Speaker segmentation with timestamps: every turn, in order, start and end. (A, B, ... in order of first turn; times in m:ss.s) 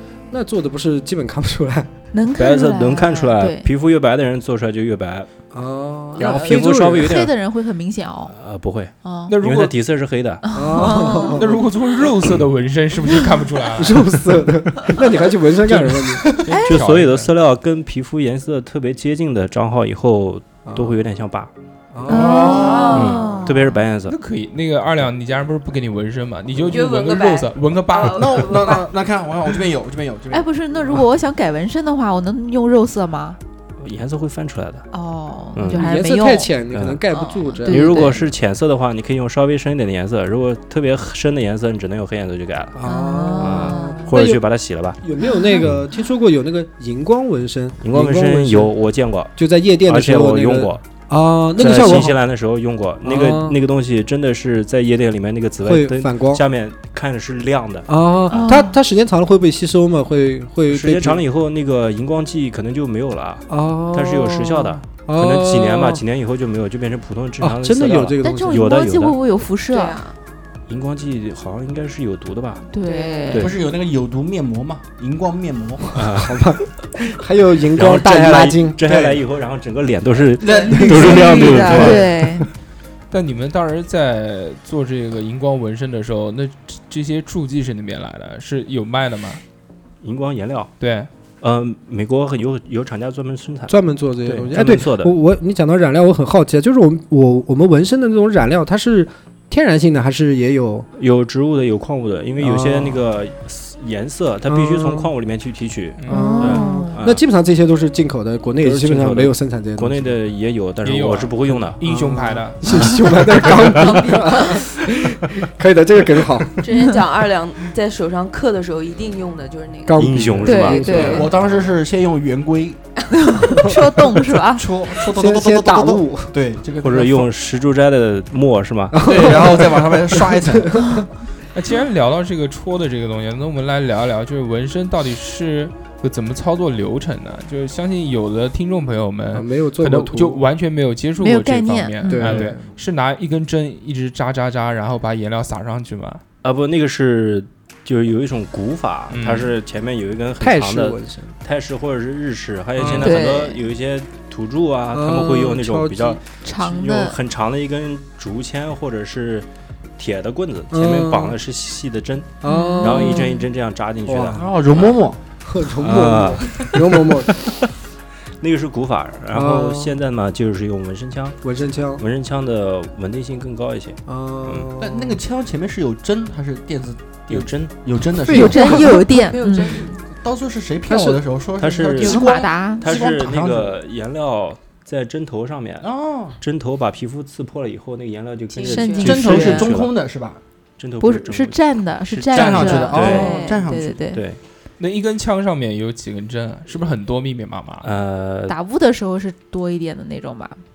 0:00.3-0:01.9 A
0:02.1-0:03.7 B
0:02.4-0:05.3 C
0:05.5-0:07.2 A
0:06.2-0:07.4 C
0:06.2-0:08.4 B
0:08.3-0:10.5 C
0:09.0-0:09.3 B
0:09.3-0:09.8 D
0:10.5-0:11.5 B
0:10.5-0:11.7 A
0:11.3-0:14.4 D
0:13.8-0:16.4 A
0:15.7-0:17.3 D
0:16.5-0:16.8 B
0:16.7-0:21.5 C
0:20.7-0:21.0 A
0:21.9-0:22.6 A
0:22.1-0:23.8 B
0:22.1-0:23.0 E
0:22.5-0:23.5 F
0:22.9-0:24.2 C
0:24.1-0:28.6 D
0:26.6-0:28.9 F
0:28.1-0:30.5 E
0:30.3-0:33.4 B
0:33.8-0:34.9 C
0:34.9-0:36.5 B
0:35.5-0:35.9 C
0:35.7-0:38.2 A
0:36.7-0:37.0 C
0:37.1-0:38.3 B
0:37.7-0:42.8 C
0:42.8-0:44.4 A
0:42.9-0:44.1 B
0:43.4-0:45.0 C
0:45.0-0:48.7 A
0:45.2-0:45.7 B
0:47.8-0:50.8 C
0:49.4-0:52.2 A
0:51.6-0:57.9 C
0:53.0-0:53.6 A
0:55.6-0:56.4 A
0:57.9-1:01.2 A
0:58.3-0:58.8 B
1:00.7-1:09.2 C
1:03.5-1:06.0 A
1:07.4-1:08.6 A
1:08.2-1:10.0 B
1:09.7-1:10.2 F
1:10.7-1:12.7 C
1:12.7-1:13.5 B
1:12.8-1:13.5 F
1:13.3-1:13.6 C
1:13.3-1:16.0 E
1:16.0-1:16.5 C
1:16.1-1:19.2 A
1:17.7-1:22.5 C
1:20.4-1:22.0 E
1:20.4-1:22.5 B
1:21.0-1:22.0 A
1:23.1-1:29.4 D
1:30.0-1:30.7 C
1:30.8-1:31.1 D
1:31.4-1:35.1 C
1:33.7-1:40.9 A
1:41.0-1:47.2 C
1:42.4-1:43.0 A
1:44.5-1:45.1 A
1:46.0-1:46.4 D
1:46.1-1:50.1 A
1:46.1-1:47.0 B
1:48.6-1:51.8 C
1:50.8-1:52.8 D
1:51.8-1:56.7 A
1:52.7-1:54.0 C
1:53.7-1:54.7 F
1:56.6-2:00.1 F
1:59.9-2:01.4 A
2:00.0-2:01.3 C
2:00.4-2:01.3 B
2:01.0-2:02.8 E
2:03.2-2:04.8 B
2:04.3-2:07.3 E
2:05.0-2:06.4 A
2:06.8-2:09.4 C
2:08.9-2:11.1 A
2:09.0-2:11.0 E
2:11.5-2:26.2 D
2:19.3-2:20.4 A
2:21.2-2:22.5 B
2:22.0-2:22.7 A
2:26.4-2:39.5 C
2:29.1-2:29.5 D
2:30.4-2:31.4 A
2:32.8-2:33.2 D
2:32.9-2:33.6 B
2:34.9-2:36.2 A
2:36.4-2:37.2 B
2:40.0-2:45.0 C
2:40.7-2:41.4 A
2:42.4-2:43.2 A
2:42.4-2:43.5 B
2:44.0-2:44.4 A
2:44.4-2:45.2 E
2:45.4-2:47.4 A
2:45.8-2:47.6 C
2:48.4-2:51.5 C
2:49.3-2:50.0 A
2:51.4-2:52.0 A
2:52.0-2:54.7 C
2:54.1-2:55.2 A
2:54.8-2:58.9 E
2:57.3-2:57.8 C
2:58.2-2:59.0 A
2:58.3-2:59.9 B
2:58.6-3:00.0 F
3:00.0-3:03.8 E
3:00.9-3:01.2 A
3:01.6-3:09.9 C
3:02.0-3:02.9 B
3:05.8-3:06.4 E
3:08.5-3:09.2 F
3:08.6-3:09.7 B
3:09.0-3:10.4 E
3:10.8-3:13.5 C
3:11.0-3:14.2 B
3:12.3-3:14.0 E
3:13.1-3:13.6 F
3:14.1-3:14.4 C
3:14.8-3:17.9 D
3:17.8-3:18.6 C
3:18.5-3:20.6 B